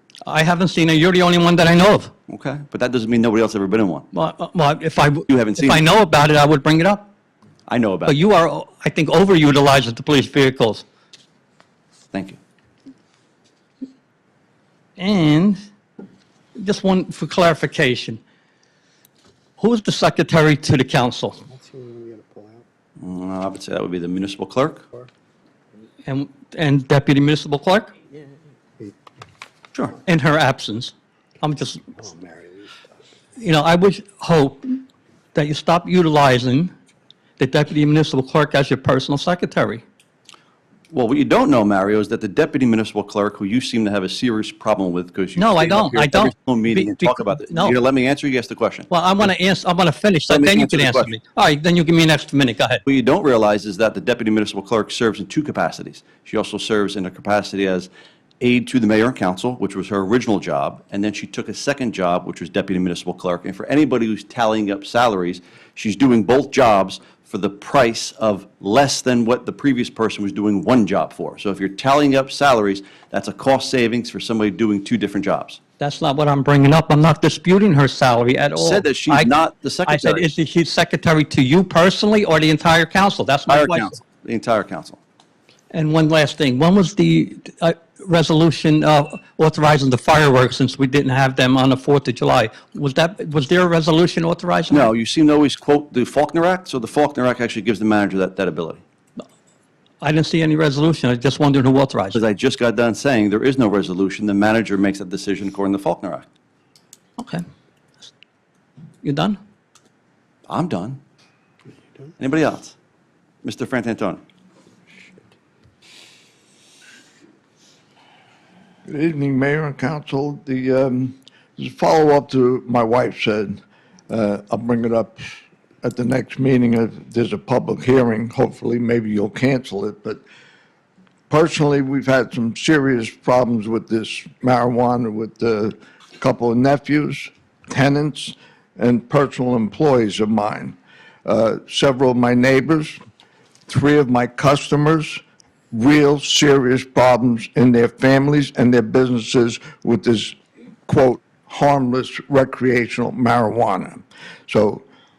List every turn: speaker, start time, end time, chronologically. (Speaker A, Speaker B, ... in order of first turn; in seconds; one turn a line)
Speaker A: 0.2-2.1
Speaker B: 2.3-4.1
Speaker A: 4.1-7.0
Speaker B: 5.3-5.8
Speaker B: 7.7-8.2
Speaker A: 8.1-10.8
Speaker B: 12.1-12.4
Speaker A: 15.0-15.6
Speaker A: 16.6-18.2
Speaker A: 19.6-21.4
Speaker C: 21.5-22.6
Speaker B: 23.0-24.8
Speaker A: 26.1-27.9
Speaker A: 30.0-31.8
Speaker C: 32.0-32.8
Speaker A: 33.4-34.8
Speaker A: 35.3-36.7
Speaker A: 37.4-39.8
Speaker B: 40.9-48.9
Speaker A: 45.4-47.7
Speaker A: 48.9-52.8
Speaker B: 50.3-51.1
Speaker B: 52.8-57.9
Speaker B: 58.4-75.6
Speaker A: 75.8-79.3
Speaker B: 78.5-80.3
Speaker A: 79.8-83.9
Speaker B: 83.5-85.0
Speaker A: 85.7-94.9
Speaker B: 94.7-98.8
Speaker A: 100.0-102.2
Speaker B: 102.1-106.3
Speaker A: 107.2-107.4
Speaker A: 109.0-109.4
Speaker B: 110.5-111.0
Speaker B: 112.2-112.7
Speaker B: 113.4-114.2
Speaker D: 118.9-125.2
Speaker D: 125.8-130.2
Speaker D: 131.3-143.0
Speaker D: 143.7-154.8